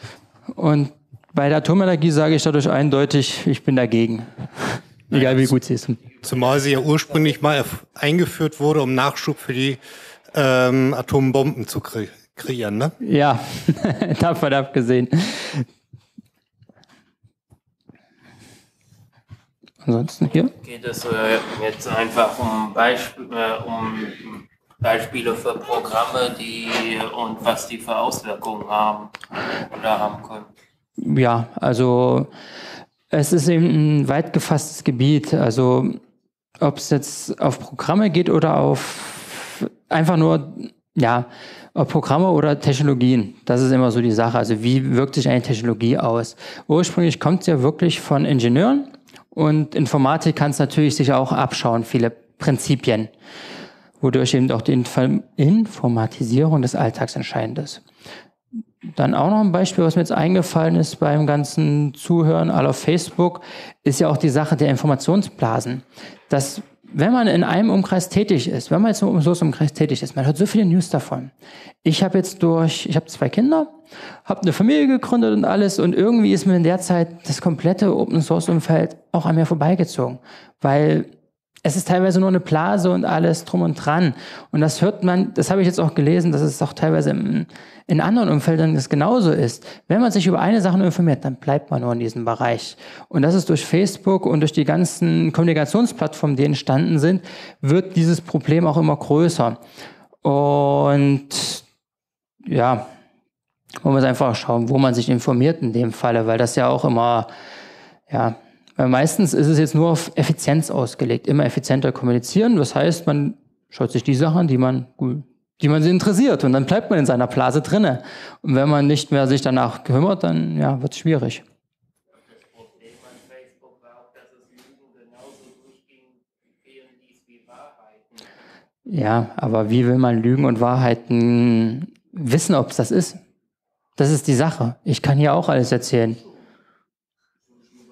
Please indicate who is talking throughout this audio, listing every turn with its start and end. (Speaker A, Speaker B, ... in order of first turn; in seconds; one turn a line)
Speaker A: 0.5-6.0
Speaker B: 6.2-9.8
Speaker B: 10.3-12.9
Speaker A: 13.0-15.7
Speaker A: 19.8-20.5
Speaker C: 20.3-29.1
Speaker C: 29.7-30.5
Speaker A: 31.0-32.3
Speaker A: 33.1-36.0
Speaker A: 36.6-53.1
Speaker A: 54.0-57.8
Speaker A: 58.9-71.3
Speaker A: 71.8-73.7
Speaker A: 74.3-81.1
Speaker A: 81.6-99.6
Speaker A: 100.2-101.6
Speaker A: 102.5-102.9
Speaker A: 103.8-107.3
Speaker A: 108.1-121.4
Speaker C: 122.3-128.3
Speaker A: 128.9-133.2
Speaker A: 134.0-136.2